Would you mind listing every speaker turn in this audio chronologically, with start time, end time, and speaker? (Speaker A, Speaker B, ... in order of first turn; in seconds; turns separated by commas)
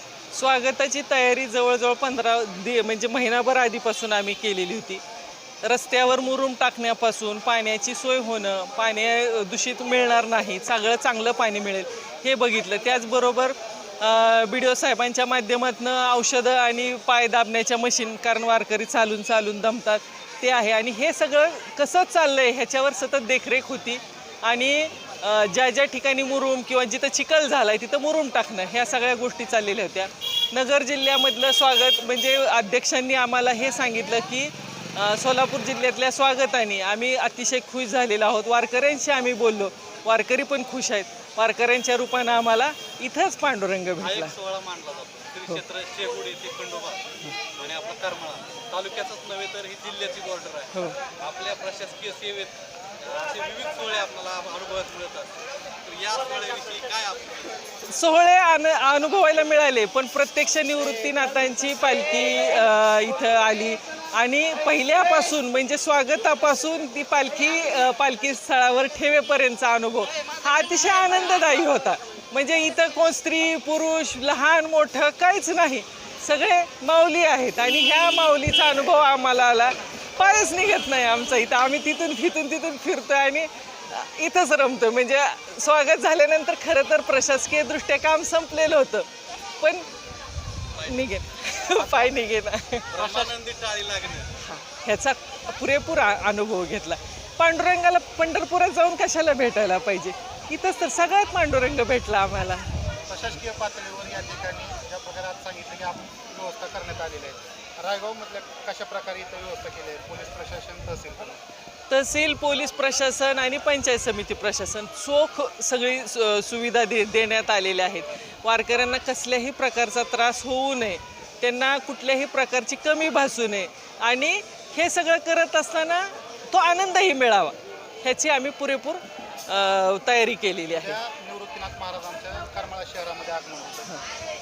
Speaker A: 0.3-5.0, Speaker A: 5.6-44.3, Speaker B: 44.0-57.6, Speaker A: 50.7-51.0, Speaker A: 57.8-89.0, Speaker A: 89.6-89.8, Speaker B: 90.7-91.1, Speaker A: 90.8-92.9, Speaker C: 91.7-92.3, Speaker B: 92.9-94.3, Speaker C: 93.0-93.3, Speaker A: 94.4-102.7, Speaker C: 103.1-111.4, Speaker A: 111.9-131.0, Speaker C: 130.7-134.0